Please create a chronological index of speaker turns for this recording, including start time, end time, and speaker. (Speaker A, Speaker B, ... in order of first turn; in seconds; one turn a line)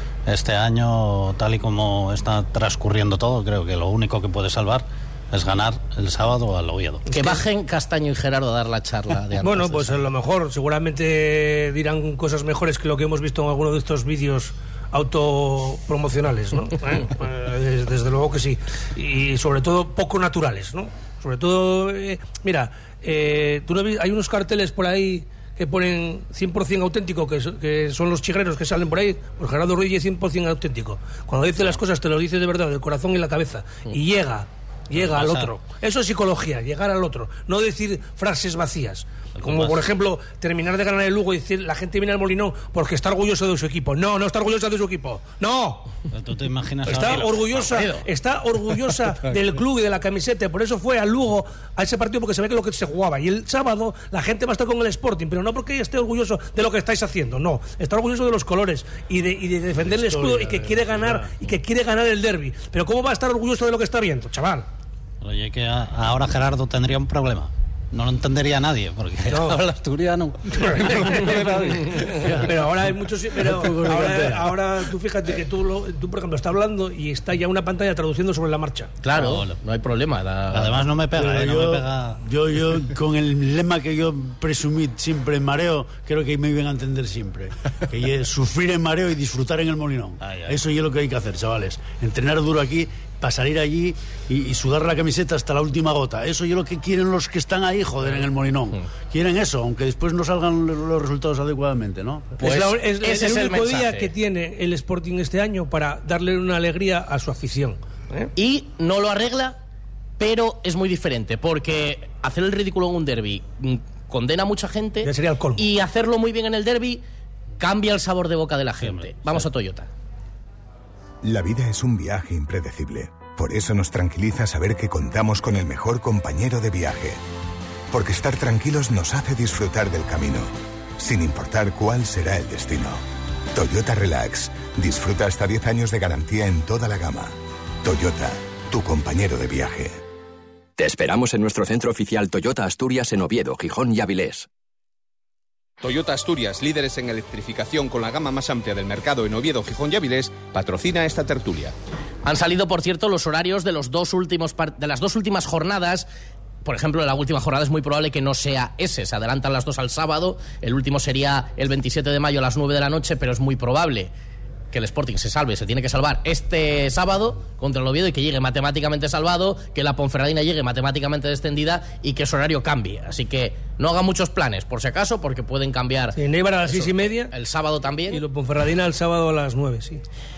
Speaker A: 0.3-7.0
Speaker B: 7.1-7.4
Speaker C: 7.1-9.9
Speaker B: 9.4-45.9
Speaker A: 34.9-35.5
Speaker A: 39.4-39.9
Speaker A: 46.1-47.4
Speaker B: 46.9-64.7
Speaker C: 46.9-48.1
Speaker D: 59.9-61.3
Speaker A: 65.2-72.4
Speaker B: 69.3-69.6
Speaker B: 70.6-78.9
Speaker D: 72.1-72.5
Speaker D: 73.3-74.6
Speaker C: 79.0-80.9
Speaker A: 79.1-79.5
Speaker A: 80.5-82.2
Speaker D: 81.1-102.3
Speaker A: 90.2-90.6
Speaker B: 102.4-108.3
Speaker C: 102.4-104.1
Speaker C: 108.3-109.5
Speaker C: 110.2-117.0
Speaker B: 115.0-115.6
Speaker C: 117.6-119.9
Speaker A: 118.8-119.3
Speaker E: 121.2-127.2
Speaker E: 127.9-133.0
Speaker E: 133.5-140.0
Speaker F: 140.8-144.5
Speaker G: 145.8-151.7
Speaker C: 152.2-156.1
Speaker C: 156.6-164.1
Speaker C: 164.7-178.2
Speaker B: 176.1-177.3
Speaker B: 178.1-180.0